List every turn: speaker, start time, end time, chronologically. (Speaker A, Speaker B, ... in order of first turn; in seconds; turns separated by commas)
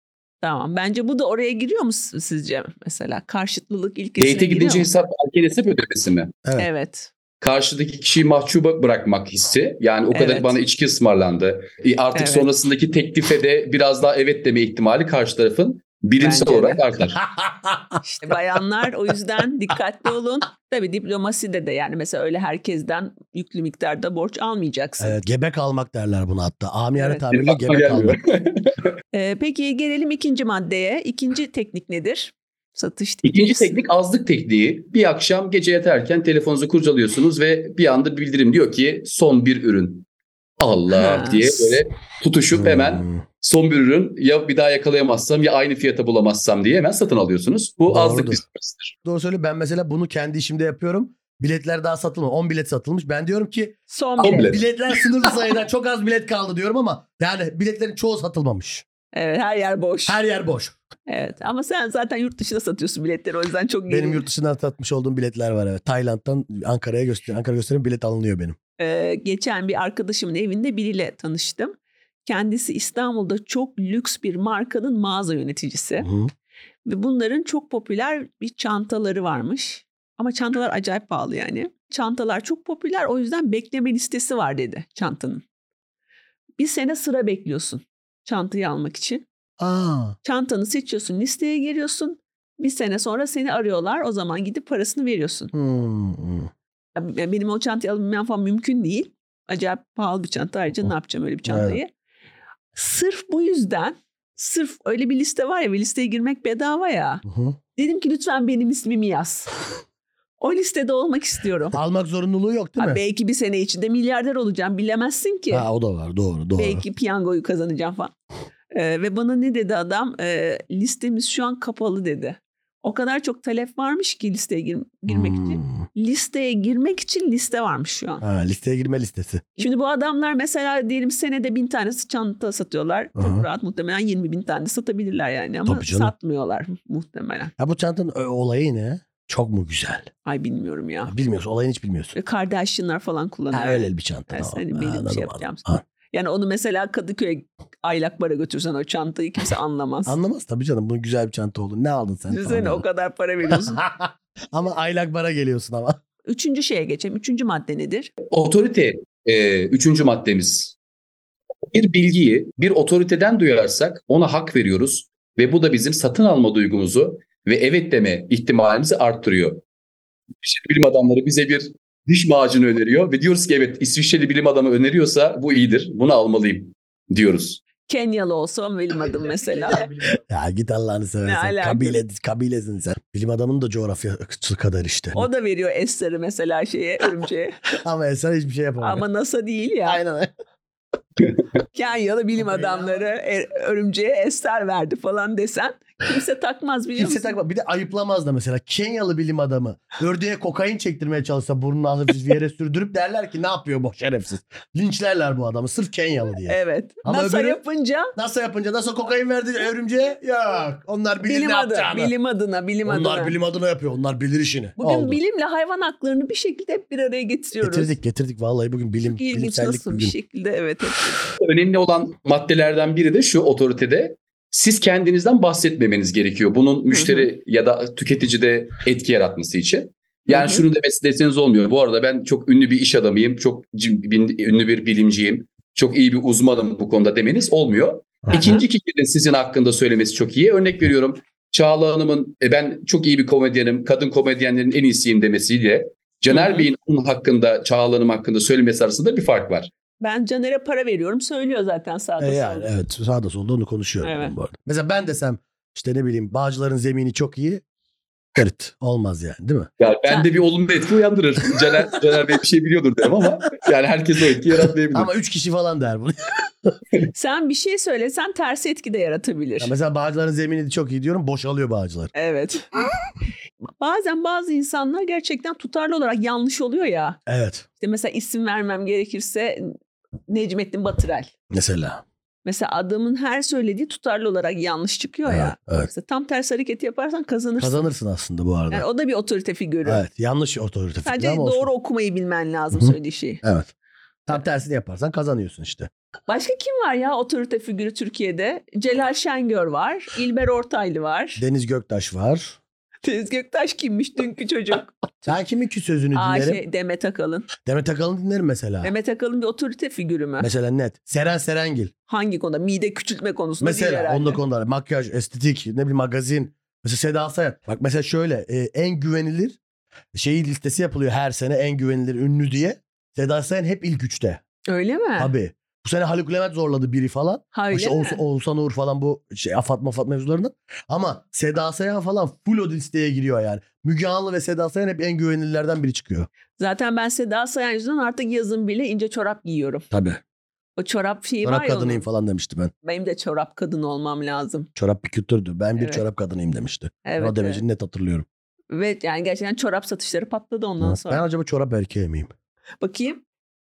Speaker A: 0.4-4.9, Speaker B: 4.2-6.3, Speaker A: 6.6-7.1, Speaker B: 7.4-17.2, Speaker A: 10.1-10.6, Speaker A: 12.1-12.5, Speaker A: 16.2-16.8, Speaker C: 17.3-18.0, Speaker A: 18.0-25.2, Speaker C: 25.0-28.2, Speaker A: 26.9-27.2, Speaker B: 27.3-28.9, Speaker A: 29.1-33.7, Speaker B: 33.2-40.0, Speaker B: 40.6-48.9, Speaker A: 40.9-41.8, Speaker C: 42.5-43.2, Speaker C: 47.9-48.4, Speaker C: 49.0-58.8, Speaker A: 53.9-54.6, Speaker B: 54.2-54.6, Speaker A: 59.1-60.2, Speaker C: 60.1-60.8, Speaker A: 61.1-64.2, Speaker C: 63.9-68.5, Speaker A: 68.8-71.7, Speaker A: 72.2-76.1, Speaker C: 76.0-76.3, Speaker A: 76.8-85.4, Speaker A: 86.6-89.2, Speaker C: 89.6-90.2, Speaker A: 90.2-95.5, Speaker C: 95.5-96.5, Speaker A: 96.9-101.9, Speaker C: 101.5-101.8, Speaker A: 102.7-107.2, Speaker C: 107.2-107.6, Speaker A: 107.8-109.5, Speaker A: 110.4-111.8, Speaker C: 111.7-113.0, Speaker A: 112.8-115.7, Speaker C: 115.5-116.8, Speaker A: 116.6-118.1, Speaker A: 118.7-128.2, Speaker C: 125.1-125.8, Speaker C: 128.2-129.5, Speaker A: 129.6-137.5, Speaker C: 133.2-133.4, Speaker C: 135.7-136.1, Speaker C: 137.6-140.1, Speaker A: 140.2-141.1, Speaker C: 141.1-142.1, Speaker A: 142.1-150.2, Speaker C: 143.5-145.8, Speaker C: 150.1-152.8, Speaker A: 152.3-153.8, Speaker C: 153.5-156.0, Speaker A: 156.3-158.1, Speaker B: 158.3-160.8, Speaker B: 161.7-169.6, Speaker B: 170.4-177.6, Speaker A: 177.8-179.9, Speaker C: 179.7-185.3, Speaker A: 181.2-182.0, Speaker A: 185.1-187.6, Speaker C: 187.8-189.0, Speaker A: 188.8-190.0, Speaker C: 189.8-190.3, Speaker A: 191.7-197.3, Speaker C: 192.4-193.0, Speaker C: 196.9-207.6, Speaker A: 206.5-208.1, Speaker C: 208.2-212.1, Speaker A: 211.2-213.3, Speaker C: 212.8-215.2, Speaker A: 214.8-217.9, Speaker C: 217.6-220.1, Speaker A: 219.0-221.2, Speaker B: 221.4-249.7, Speaker A: 226.9-227.3, Speaker A: 230.3-230.6, Speaker A: 238.3-238.6, Speaker A: 246.3-246.7, Speaker A: 250.0-252.7, Speaker C: 252.2-257.6, Speaker A: 254.0-254.3, Speaker C: 258.4-259.7, Speaker B: 259.8-265.1, Speaker C: 264.9-266.7, Speaker A: 267.1-269.7, Speaker C: 269.6-272.1, Speaker A: 272.1-272.7, Speaker A: 273.8-277.2, Speaker C: 277.3-277.6, Speaker A: 277.8-279.8, Speaker A: 280.3-281.3, Speaker C: 281.5-282.0, Speaker A: 282.4-287.9, Speaker C: 285.2-285.9, Speaker C: 287.6-288.9, Speaker A: 288.7-290.0, Speaker C: 289.8-291.7, Speaker A: 291.0-293.4, Speaker C: 292.7-293.7, Speaker C: 294.3-295.9, Speaker A: 296.3-301.4, Speaker C: 301.4-302.6, Speaker A: 303.0-305.3, Speaker C: 305.3-306.6, Speaker A: 306.1-307.5, Speaker C: 307.6-308.9, Speaker A: 308.8-310.5, Speaker C: 310.4-311.9, Speaker A: 312.1-314.4, Speaker C: 313.6-319.6, Speaker C: 320.1-324.4, Speaker A: 324.7-325.3, Speaker C: 325.2-336.3, Speaker A: 327.5-328.2, Speaker A: 336.6-339.8, Speaker C: 339.9-340.2, Speaker A: 340.8-342.0, Speaker C: 341.4-342.7, Speaker A: 342.8-344.7, Speaker C: 344.8-348.2, Speaker A: 345.8-346.0, Speaker A: 347.0-347.6, Speaker A: 348.7-351.2, Speaker C: 350.8-352.3, Speaker A: 352.8-353.2